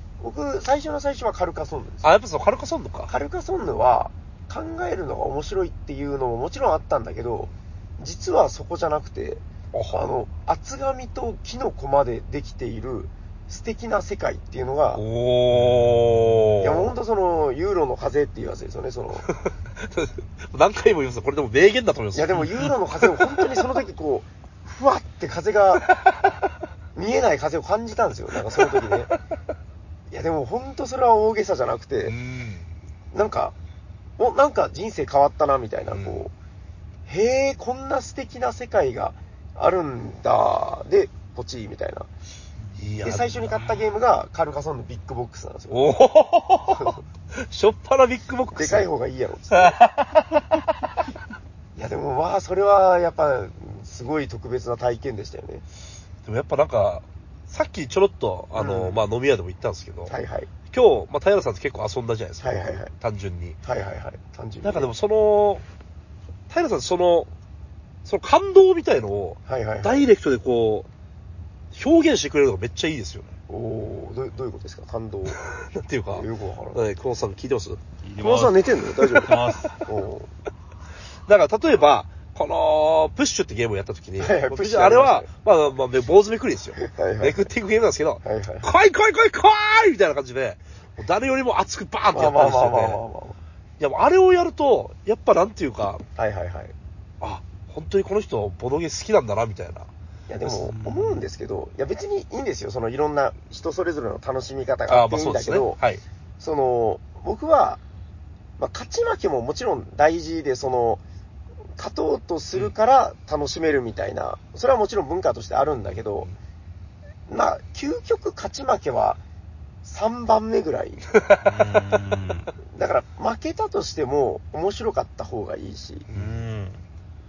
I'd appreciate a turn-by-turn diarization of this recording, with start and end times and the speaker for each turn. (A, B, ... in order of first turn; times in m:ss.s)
0:00.2-0:02.1 A
0:02.0-0:03.1 B
0:03.1-0:15.0 A
0:09.7-0:10.0 B
0:14.9-0:16.9 B
0:15.5-0:16.6 C
0:16.6-0:19.3 A
0:19.3-0:23.4 B
0:22.1-0:25.9 A
0:27.0-0:29.1 A
0:28.5-0:29.1 B
0:30.1-0:32.2 A
0:32.1-0:32.7 B
0:33.1-0:33.6 A
0:34.2-0:36.3 A
0:35.9-0:36.3 B
0:37.1-0:42.1 A
0:42.8-0:43.6 B
0:43.0-0:45.9 A
0:45.7-0:48.9 B
0:46.8-0:47.0 A
0:48.5-0:49.8 A
0:49.5-0:50.7 B
0:51.8-0:55.6 A
0:56.2-1:00.1 B
0:58.6-0:59.0 A
1:00.1-1:00.5 A
1:00.7-1:03.6 B
1:02.4-1:02.9 A
1:03.6-1:04.9 A
1:04.6-1:05.6 B
1:06.5-1:07.3 B
1:08.0-1:10.9 B
1:09.5-1:10.1 A
1:11.7-1:13.3 B
1:13.5-1:15.4 A
1:15.4-1:17.8 B
1:16.2-1:16.8 A
1:18.0-1:19.8 C
1:18.2-1:20.3 A
1:21.3-1:33.0 B
1:24.2-1:25.3 A
1:26.8-1:27.4 A
1:28.2-1:28.7 A
1:32.1-1:33.4 A
1:33.8-1:36.0 B
1:36.2-1:36.7 A
1:37.2-1:39.9 B
1:40.3-1:45.8 A
1:40.4-1:41.3 C
1:44.9-1:46.0 B
1:46.4-1:47.8 A
1:48.6-1:51.0 A
1:51.8-1:56.3 A
1:57.3-1:59.2 A
1:59.8-2:01.0 A
2:01.1-2:01.7 B
2:01.4-2:02.5 C
2:02.7-2:06.1 A
2:06.1-2:06.4 B
2:06.1-2:06.8 C